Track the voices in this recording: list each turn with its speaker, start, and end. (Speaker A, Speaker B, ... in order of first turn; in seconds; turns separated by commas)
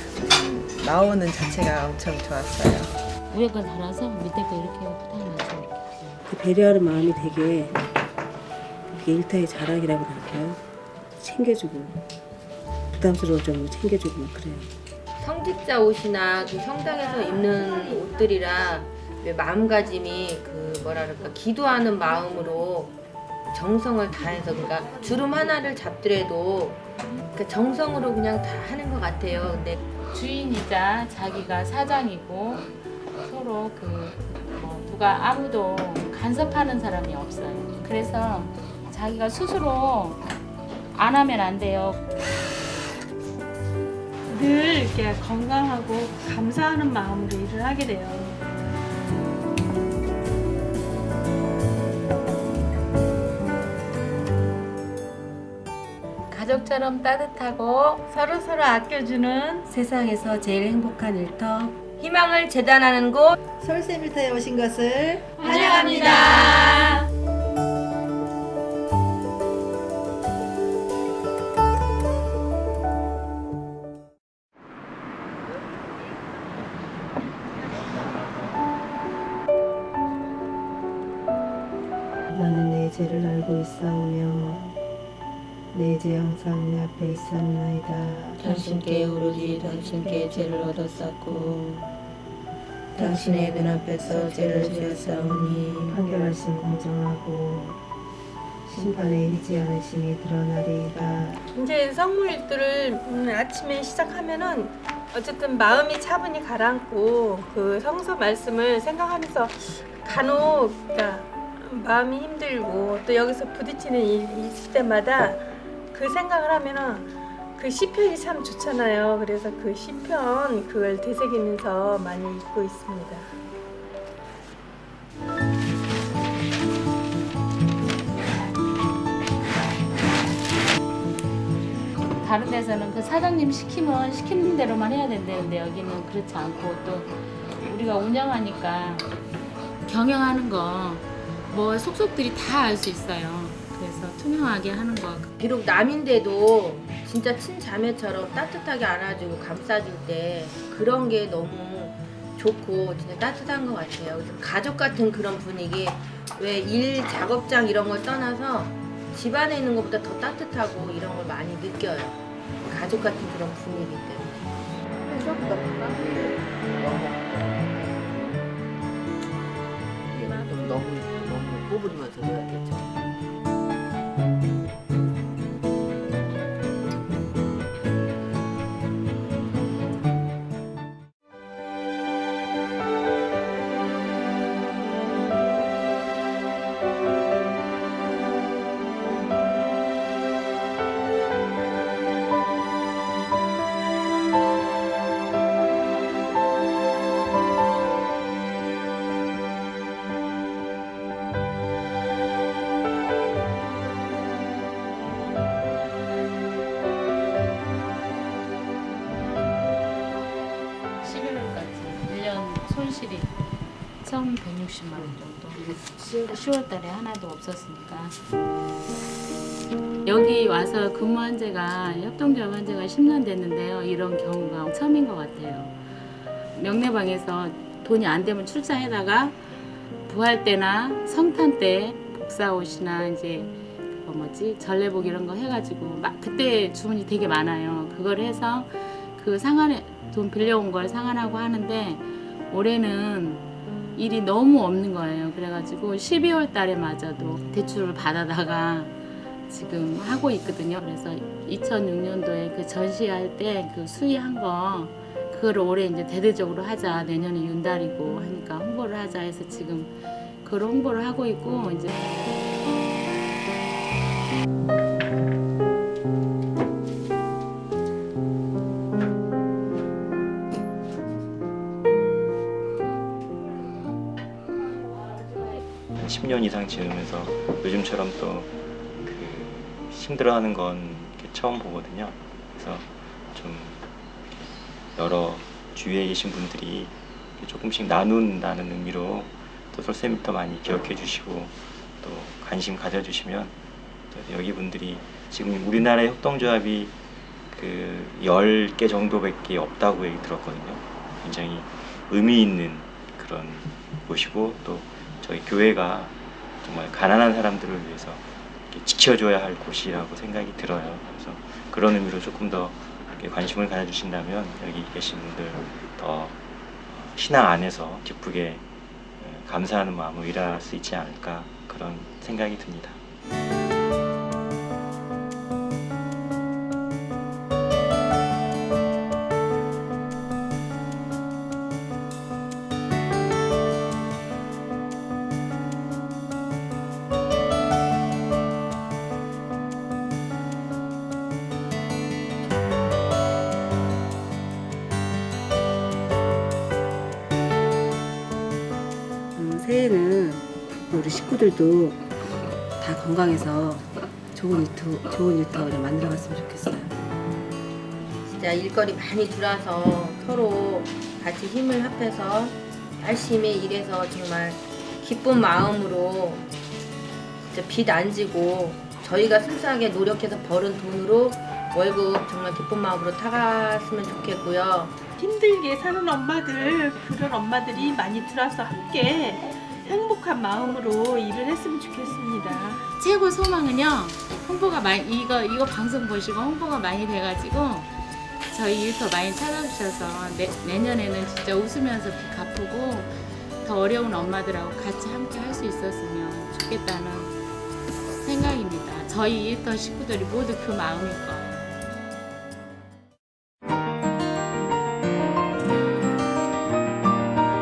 Speaker A: 0.6-2.9, Speaker B: 3.3-5.8, Speaker C: 6.2-7.8, Speaker C: 8.9-10.6, Speaker C: 11.2-12.0, Speaker C: 12.9-14.7, Speaker D: 15.2-22.9, Speaker D: 23.5-29.8, Speaker B: 30.1-40.2, Speaker B: 40.9-42.0, Speaker E: 44.3-48.4, Speaker B: 56.3-58.0, Speaker E: 58.1-59.7, Speaker D: 62.0-63.4, Speaker E: 65.4-67.0, Speaker D: 65.9-66.4, Speaker F: 82.3-84.8, Speaker F: 85.7-88.5, Speaker D: 88.5-91.7, Speaker D: 93.0-93.7, Speaker F: 93.1-94.0, Speaker D: 94.2-95.4, Speaker F: 95.8-97.8, Speaker F: 98.7-101.4, Speaker E: 101.5-123.3, Speaker B: 132.2-139.1, Speaker B: 139.8-145.3, Speaker D: 145.4-164.3, Speaker G: 165.1-168.3, Speaker G: 170.1-173.1, Speaker B: 211.0-213.3, Speaker B: 214.0-218.2, Speaker B: 220.0-225.8, Speaker B: 226.5-229.4, Speaker B: 230.1-248.9, Speaker B: 249.5-262.2, Speaker H: 276.0-278.5, Speaker H: 279.0-293.5, Speaker H: 294.1-296.9, Speaker H: 297.5-318.6, Speaker H: 319.2-323.0, Speaker C: 349.4-352.0, Speaker C: 352.8-356.9, Speaker D: 358.2-366.4, Speaker D: 367.5-375.0, Speaker E: 375.2-382.8, Speaker B: 382.9-387.9, Speaker B: 388.4-397.3, Speaker B: 398.2-401.7